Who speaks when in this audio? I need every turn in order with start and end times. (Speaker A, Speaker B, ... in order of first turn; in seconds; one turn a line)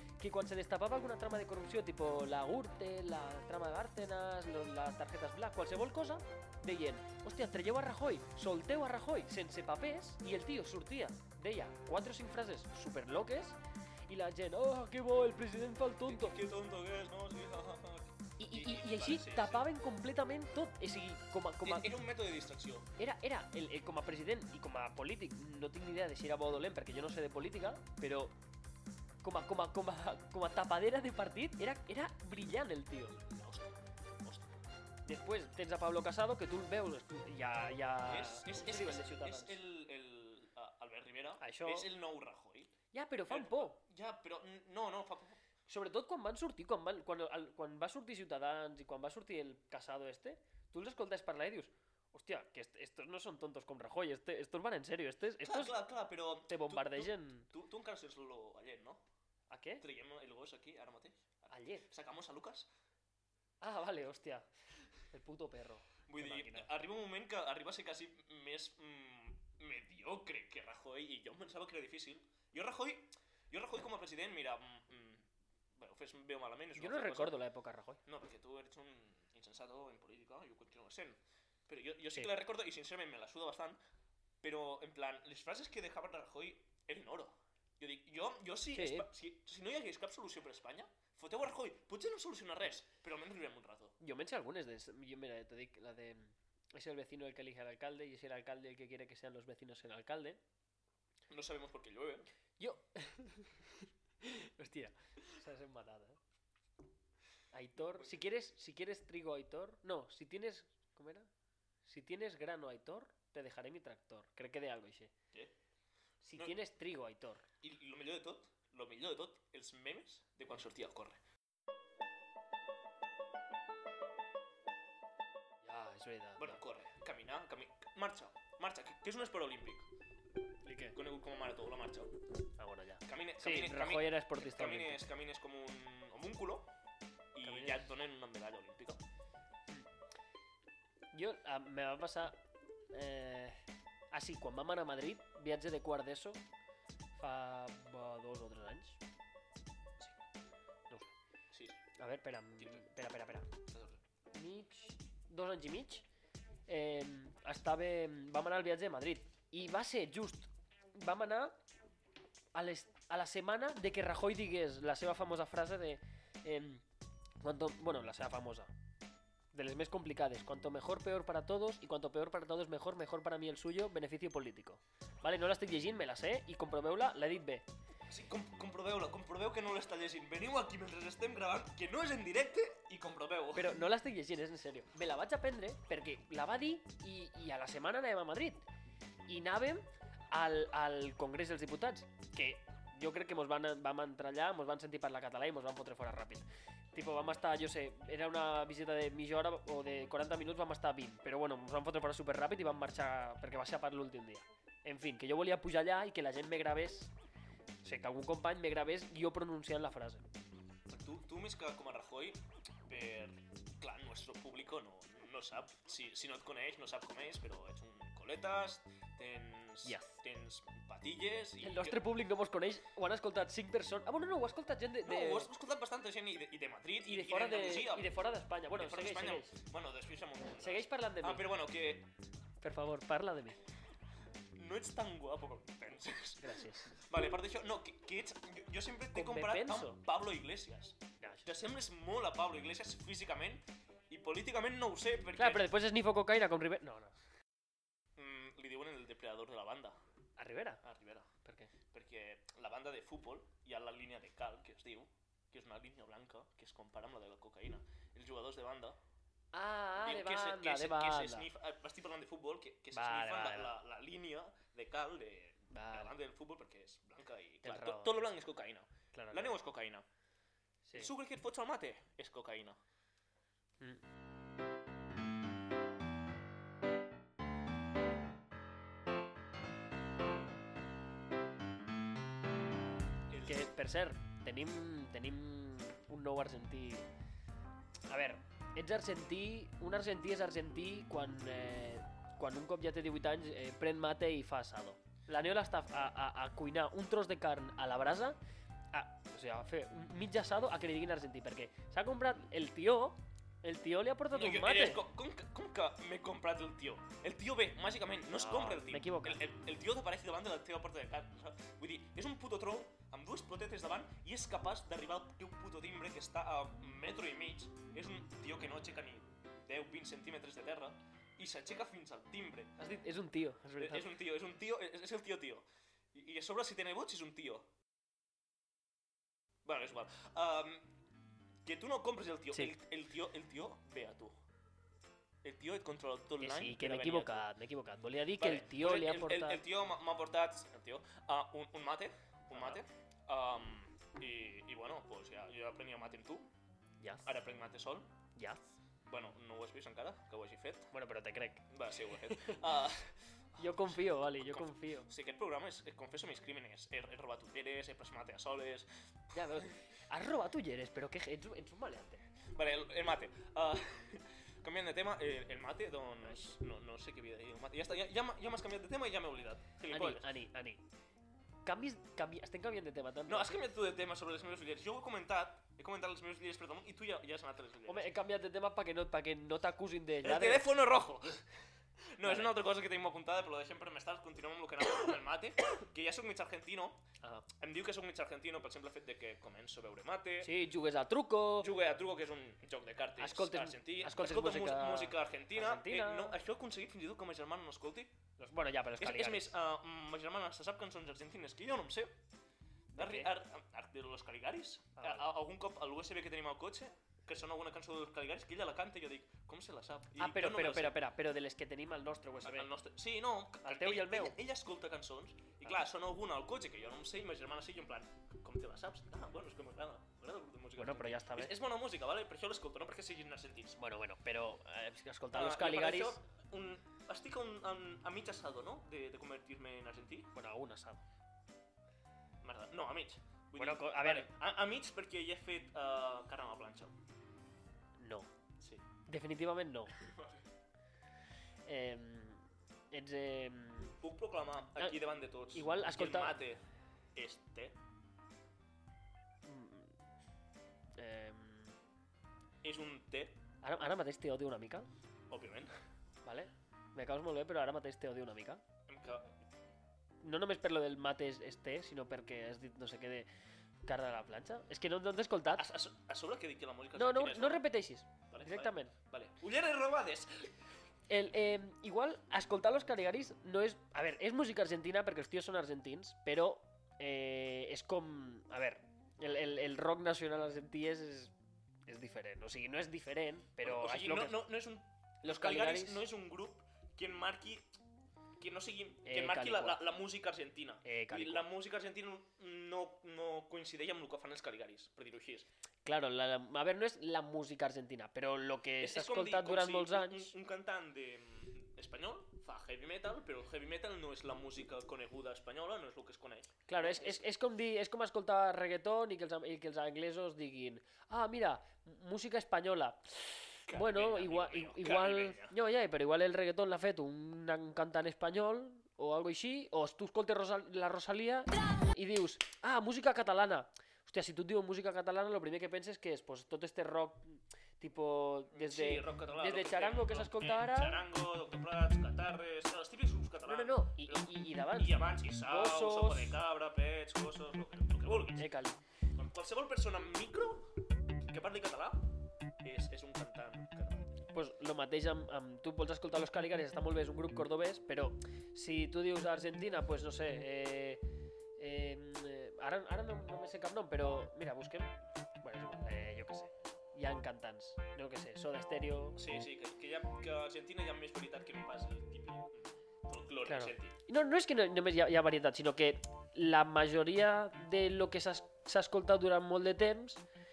Speaker A: 0.2-13.6
Speaker A: 14.1-16.4
Speaker B: 16.1-19.7
Speaker A: 18.4-21.9
Speaker B: 21.6-22.9
Speaker A: 23.0-28.3
Speaker A: 29.2-33.1
Speaker B: 33.1-34.6
Speaker A: 35.0-39.6
Speaker B: 38.0-42.7
Speaker A: 41.4-41.9
Speaker A: 42.9-43.8
Speaker B: 43.3-45.4
Speaker A: 45.7-55.7
Speaker B: 55.4-59.0
Speaker A: 56.5-57.5
Speaker A: 59.5-59.8
Speaker B: 59.8-62.7
Speaker A: 61.5-61.9
Speaker A: 63.6-64.5
Speaker A: 65.1-66.7
Speaker B: 66.1-77.4
Speaker A: 76.7-78.0
Speaker B: 78.0-83.8
Speaker B: 84.4-94.0
Speaker A: 88.7-89.1
Speaker A: 94.0-100.4
Speaker B: 101.3-102.3
Speaker A: 102.6-106.2
Speaker A: 107.5-111.3
Speaker B: 107.9-108.2
Speaker A: 111.8-115.1
Speaker A: 116.2-117.5
Speaker B: 117.6-121.2
Speaker A: 125.6-126.6
Speaker B: 126.4-129.9
Speaker A: 130.6-130.9
Speaker B: 130.9-132.1
Speaker A: 132.6-135.1
Speaker B: 133.0-136.7
Speaker B: 137.3-139.0
Speaker A: 137.4-137.9
Speaker A: 141.1-142.4
Speaker A: 142.9-143.6
Speaker A: 144.1-146.4
Speaker A: 147.2-149.0
Speaker B: 151.5-151.8
Speaker A: 152.0-153.5
Speaker B: 152.6-152.8
Speaker B: 153.7-154.0
Speaker A: 154.3-156.0
Speaker A: 156.7-161.6
Speaker A: 162.5-166.8
Speaker A: 167.4-168.7
Speaker A: 169.5-177.7
Speaker B: 178.1-183.8
Speaker A: 183.5-188.6
Speaker A: 189.3-207.1
Speaker A: 207.8-210.2
Speaker B: 210.9-222.0
Speaker A: 219.8-220.2
Speaker A: 221.6-225.5
Speaker B: 225.0-232.1
Speaker A: 227.0-229.6
Speaker A: 230.6-231.4
Speaker A: 232.6-233.6
Speaker B: 234.5-245.7
Speaker A: 236.4-237.0
Speaker A: 239.1-240.0
Speaker A: 241.2-241.4
Speaker A: 245.4-247.2
Speaker B: 248.2-250.0
Speaker A: 250.4-250.8
Speaker B: 250.8-251.3
Speaker A: 251.4-251.7
Speaker B: 251.9-259.0
Speaker A: 259.5-261.5
Speaker B: 260.0-270.1
Speaker A: 262.9-263.7
Speaker A: 265.7-266.1
Speaker A: 267.6-268.3
Speaker A: 269.1-269.6
Speaker A: 270.8-271.1
Speaker B: 270.9-272.8
Speaker B: 283.3-283.7
Speaker A: 283.4-287.1
Speaker A: 288.1-298.4
Speaker A: 298.9-305.0
Speaker B: 304.3-322.7
Speaker A: 308.3-309.4
Speaker A: 322.8-324.1
Speaker B: 323.8-327.7
Speaker B: 329.6-330.9
Speaker B: 331.6-334.4
Speaker A: 332.5-332.8
Speaker B: 335.4-337.4
Speaker A: 336.4-339.6
Speaker B: 338.4-346.5
Speaker A: 342.5-342.8
Speaker B: 347.2-348.1
Speaker B: 349.1-350.9
Speaker A: 350.9-352.6
Speaker B: 351.7-358.9
Speaker A: 353.6-355.1
Speaker A: 359.3-362.2
Speaker B: 362.5-370.3
Speaker A: 369.9-370.8
Speaker A: 371.6-373.6
Speaker B: 373.3-378.1
Speaker A: 377.9-380.7
Speaker B: 380.2-381.4
Speaker B: 382.1-387.0
Speaker A: 382.2-382.5
Speaker B: 387.6-390.5
Speaker A: 390.4-391.7
Speaker B: 391.6-398.2
Speaker A: 393.2-396.4
Speaker A: 398.4-399.5
Speaker B: 399.0-402.2
Speaker A: 402.9-403.3
Speaker B: 402.9-411.0
Speaker A: 405.0-405.3
Speaker A: 410.2-412.7
Speaker B: 412.4-423.8
Speaker A: 413.6-414.4
Speaker A: 420.8-421.5
Speaker A: 423.8-426.2
Speaker B: 425.3-430.3
Speaker A: 430.3-431.0
Speaker B: 432.4-437.0
Speaker A: 433.6-434.3
Speaker A: 438.0-438.3
Speaker B: 438.6-438.8
Speaker A: 439.1-439.9
Speaker B: 440.0-440.4
Speaker A: 441.6-443.9
Speaker B: 444.0-446.6
Speaker A: 445.5-446.4
Speaker B: 447.1-447.8
Speaker A: 449.4-449.9
Speaker A: 451.0-451.7
Speaker B: 452.6-453.4
Speaker A: 453.6-454.9
Speaker B: 455.3-455.7
Speaker A: 456.2-458.6
Speaker B: 458.9-459.4
Speaker A: 460.2-463.3
Speaker A: 463.9-465.6
Speaker B: 465.5-467.7
Speaker A: 466.9-468.9
Speaker B: 468.3-470.5
Speaker A: 471.1-481.3
Speaker A: 481.9-484.4
Speaker B: 483.6-487.7
Speaker A: 485.2-486.0
Speaker B: 488.4-495.5
Speaker A: 489.0-489.8
Speaker A: 490.8-491.5
Speaker A: 495.8-500.3
Speaker B: 498.8-507.2
Speaker A: 506.7-531.0
Speaker B: 513.7-515.6
Speaker B: 528.5-538.5
Speaker A: 533.5-536.4
Speaker A: 538.4-538.8
Speaker B: 539.1-542.0
Speaker B: 542.6-544.1
Speaker A: 544.3-551.0
Speaker A: 551.6-559.2
Speaker B: 559.1-564.0
Speaker A: 563.5-570.2